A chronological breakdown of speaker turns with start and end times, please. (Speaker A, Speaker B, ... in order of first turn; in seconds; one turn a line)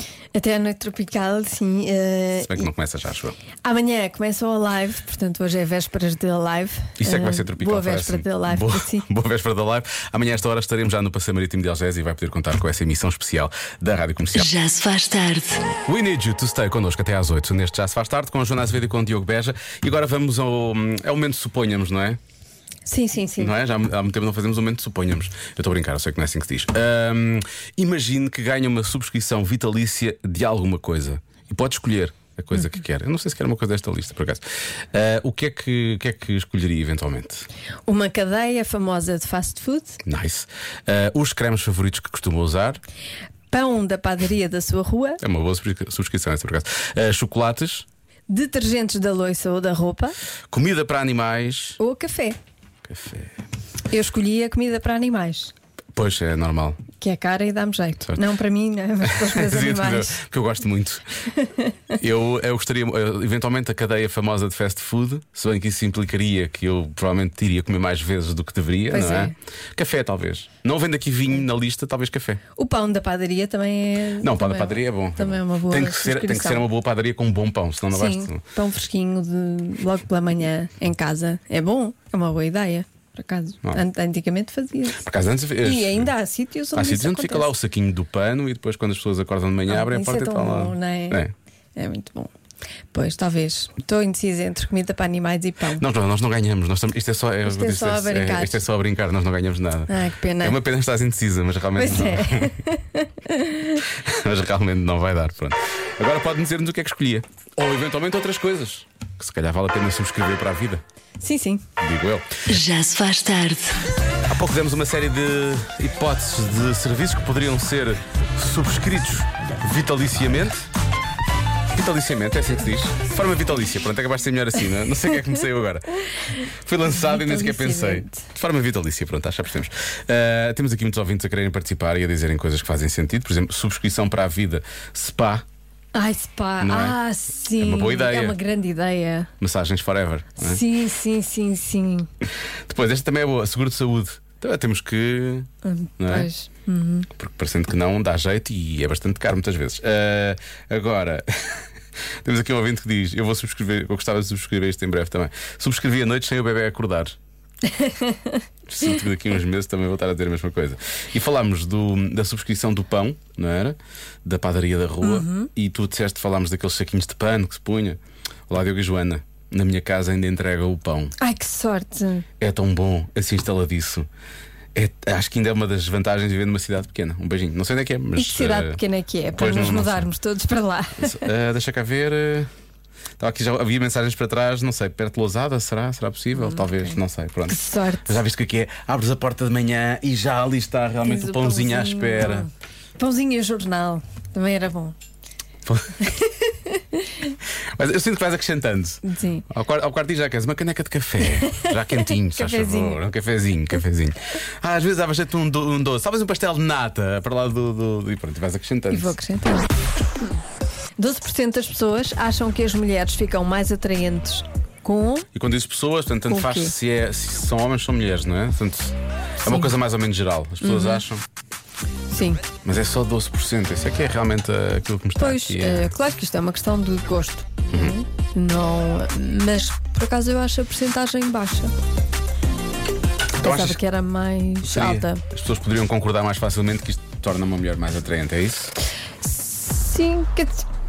Speaker A: 0.3-2.7
Speaker B: 2.4-3.4
Speaker A: 3.6-9.1
Speaker B: 7.0-14.5
Speaker C: 14.4-15.7
Speaker B: 15.8-22.2
Speaker A: 22.9-23.6
Speaker B: 23.4-37.5
Speaker A: 37.9-40.0
Speaker B: 40.0-42.8
Speaker A: 43.5-45.2
Speaker B: 45.2-47.9
Speaker A: 48.3-50.2
Speaker B: 50.5-51.8
Speaker A: 51.8-52.4
Speaker B: 52.9-53.4
Speaker A: 53.9-55.5
Speaker B: 56.0-56.8
Speaker A: 57.0-60.2
Speaker B: 59.0-61.1
Speaker A: 61.3-61.9
Speaker B: 62.0-72.4
Speaker A: 68.9-69.3
Speaker A: 72.6-76.7
Speaker B: 74.2-78.4
Speaker A: 77.9-85.0
Speaker B: 84.9-86.1
Speaker A: 85.6-87.5
Speaker B: 86.7-91.3
Speaker A: 89.7-91.2
Speaker A: 91.8-92.3
Speaker A: 92.9-95.8
Speaker B: 95.7-102.6
Speaker A: 97.5-98.6
Speaker A: 99.9-100.6
Speaker A: 101.8-103.8
Speaker B: 103.8-110.8
Speaker A: 111.2-111.6
Speaker B: 111.8-112.3
Speaker C: 112.5-113.8
Speaker B: 114.3-120.6
Speaker B: 121.7-135.4
Speaker A: 126.9-128.2
Speaker A: 135.9-139.3
Speaker B: 136.6-137.0
Speaker B: 137.5-138.4
Speaker B: 139.4-140.6
Speaker A: 140.4-142.1
Speaker B: 142.7-146.3
Speaker A: 145.6-147.1
Speaker B: 147.2-151.7
Speaker B: 152.2-157.2
Speaker A: 157.7-158.4
Speaker B: 158.7-168.0
Speaker A: 165.0-165.5
Speaker B: 168.5-171.1
Speaker A: 171.2-172.3
Speaker B: 172.4-174.1
Speaker B: 174.8-178.8
Speaker A: 178.2-181.3
Speaker B: 179.3-180.1
Speaker B: 181.0-182.5
Speaker B: 183.2-192.5
Speaker A: 186.3-188.2
Speaker A: 191.0-195.0
Speaker B: 195.7-196.0
Speaker A: 196.0-197.3
Speaker B: 197.8-209.2
Speaker A: 199.0-199.5
Speaker A: 201.4-203.0
Speaker A: 208.9-209.7
Speaker A: 211.0-215.3
Speaker B: 215.3-221.2
Speaker A: 216.3-216.8
Speaker A: 219.4-219.7
Speaker A: 220.6-221.0
Speaker A: 222.1-222.4
Speaker B: 222.6-225.9
Speaker A: 225.2-231.7
Speaker B: 227.7-228.0
Speaker B: 233.4-233.8
Speaker A: 233.4-235.2
Speaker B: 234.6-238.7
Speaker A: 239.2-240.7